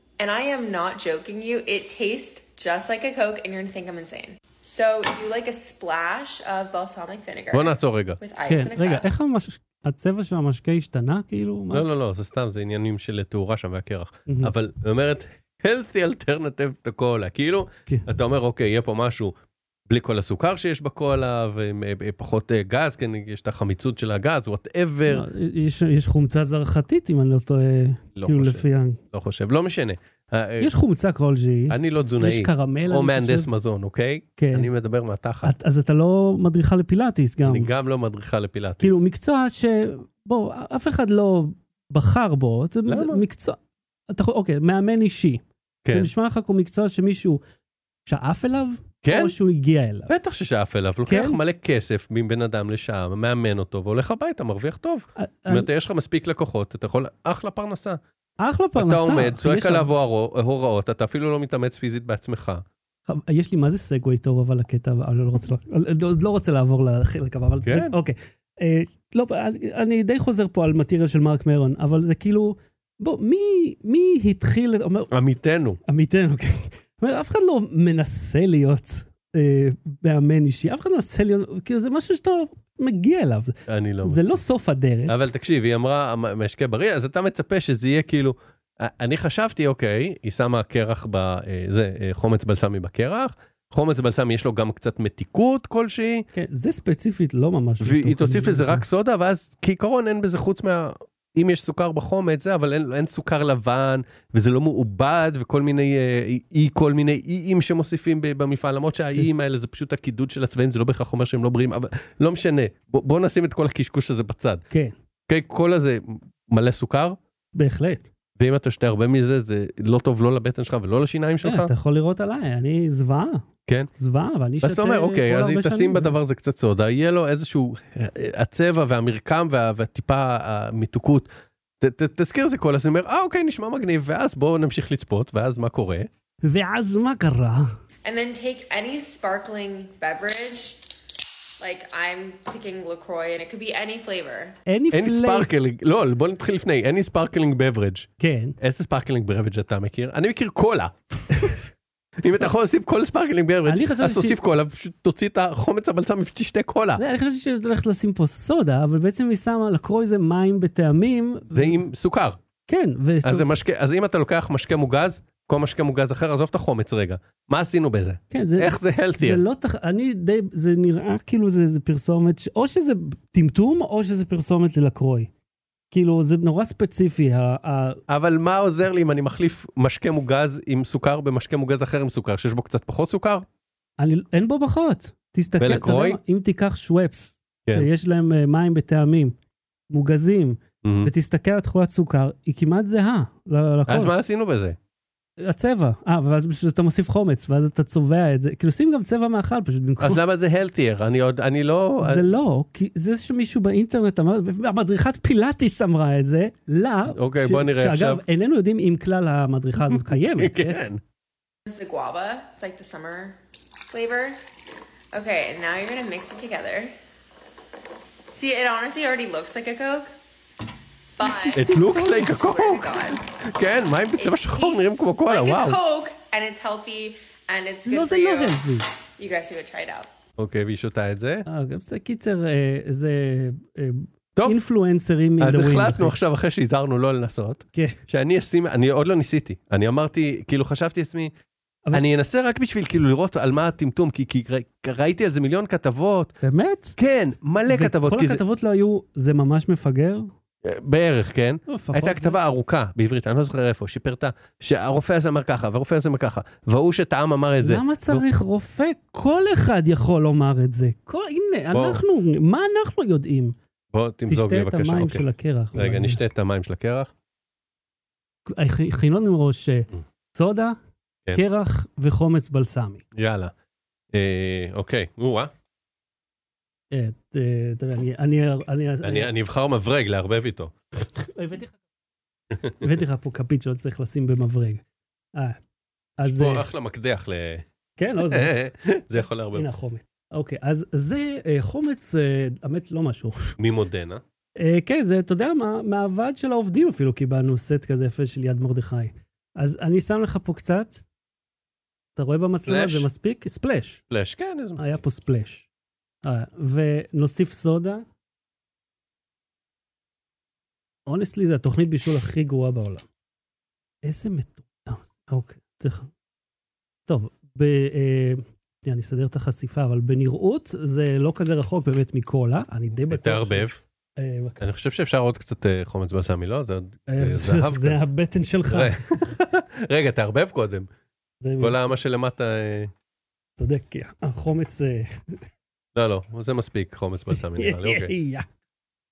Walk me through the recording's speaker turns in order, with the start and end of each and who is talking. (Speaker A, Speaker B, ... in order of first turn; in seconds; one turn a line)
Speaker A: 0.2-9.1
Speaker B: 7.5-8.2
Speaker C: 8.5-11.8
Speaker B: 11.7-19.3
Speaker C: 14.3-14.5
Speaker B: 19.9-25.2
Speaker C: 25.1-29.0
Speaker B: 28.1-30.7
Speaker C: 30.6-33.5
Speaker B: 31.7-35.5
Speaker C: 34.4-34.7
Speaker C: 35.4-37.7
Speaker B: 37.4-39.0
Speaker C: 38.8-43.6
Speaker B: 42.9-43.2
Speaker C: 44.1-47.4
Speaker B: 45.8-46.1
Speaker C: 48.0-50.1
Speaker B: 49.0-49.4
Speaker B: 50.1-58.0
Speaker C: 51.1-51.4
Speaker C: 55.2-55.7
Speaker C: 58.4-59.9
Speaker B: 58.8-62.6
Speaker C: 63.1-75.1
Speaker B: 67.7-67.9
Speaker B: 75.1-75.8
Speaker C: 75.8-85.2
Speaker B: 83.7-84.4
Speaker B: 85.1-96.2
Speaker C: 96.3-98.8
Speaker B: 97.8-114.6
Speaker B: 115.3-117.2
Speaker C: 117.5-118.1
Speaker B: 118.4-121.7
Speaker C: 121.4-126.2
Speaker B: 124.6-131.3
Speaker B: 131.8-136.1
Speaker C: 136.4-137.7
Speaker A: 138.0-140.8
Speaker A: 141.6-144.6
Speaker C: 144.7-145.5
Speaker B: 144.9-151.6
Speaker C: 148.2-148.6
Speaker B: 152.2-157.0
Speaker C: 153.6-154.4
Speaker C: 157.0-161.8
Speaker B: 161.5-162.4
Speaker C: 162.7-163.5
Speaker B: 163.2-169.4
Speaker C: 168.3-175.3
Speaker C: 175.9-178.0
Speaker B: 178.1-183.4
Speaker C: 184.0-189.3
Speaker B: 185.6-186.2
Speaker C: 189.9-194.1
Speaker B: 190.8-191.1
Speaker B: 193.9-194.8
Speaker C: 195.4-200.2
Speaker B: 200.0-202.3
Speaker C: 202.0-210.8
Speaker B: 207.1-208.2
Speaker B: 209.9-211.0
Speaker A: 211.7-213.4
Speaker A: 213.9-214.4
Speaker A: 215.1-216.9
Speaker A: 218.3-220.1
Speaker A: 221.2-223.2
Speaker C: 221.2-222.4
Speaker B: 221.5-225.8
Speaker A: 224.2-228.6
Speaker C: 227.8-228.9
Speaker A: 229.2-230.1
Speaker B: 230.4-231.4
Speaker C: 231.4-236.1
Speaker B: 235.4-241.3
Speaker B: 241.9-246.3
Speaker C: 246.4-247.0
Speaker B: 247.0-248.4
Speaker C: 247.7-250.3
Speaker B: 250.6-258.2
Speaker C: 251.7-252.4
Speaker C: 257.6-263.6
Speaker B: 261.7-262.0
Speaker B: 263.9-265.2
Speaker C: 264.3-266.2
Speaker B: 265.7-267.1
Speaker C: 268.4-270.8
Speaker C: 271.3-273.0
Speaker B: 273.1-273.5
Speaker B: 274.1-275.5
Speaker C: 276.9-279.3
Speaker B: 279.0-280.7
Speaker C: 281.1-281.8
Speaker B: 282.5-283.0
Speaker C: 282.8-284.8
Speaker C: 285.3-285.6
Speaker C: 286.2-286.7
Speaker B: 286.2-287.6
Speaker C: 288.0-288.6
Speaker B: 288.2-289.7
Speaker C: 289.5-293.5
Speaker B: 293.6-294.2
Speaker C: 294.6-301.0
Speaker C: 302.1-304.0
Speaker B: 302.6-303.1
Speaker B: 304.1-305.0
Speaker C: 304.8-305.7
Speaker C: 306.2-308.0
Speaker C: 311.1-313.0
Speaker C: 314.0-316.1
Speaker C: 317.1-324.6
Speaker B: 323.1-323.8
Speaker B: 324.6-328.0
Speaker C: 327.1-329.2
Speaker B: 328.7-330.9
Speaker C: 331.4-331.8
Speaker B: 331.6-332.9
Speaker C: 333.6-335.1
Speaker B: 335.9-338.1
Speaker C: 337.3-338.4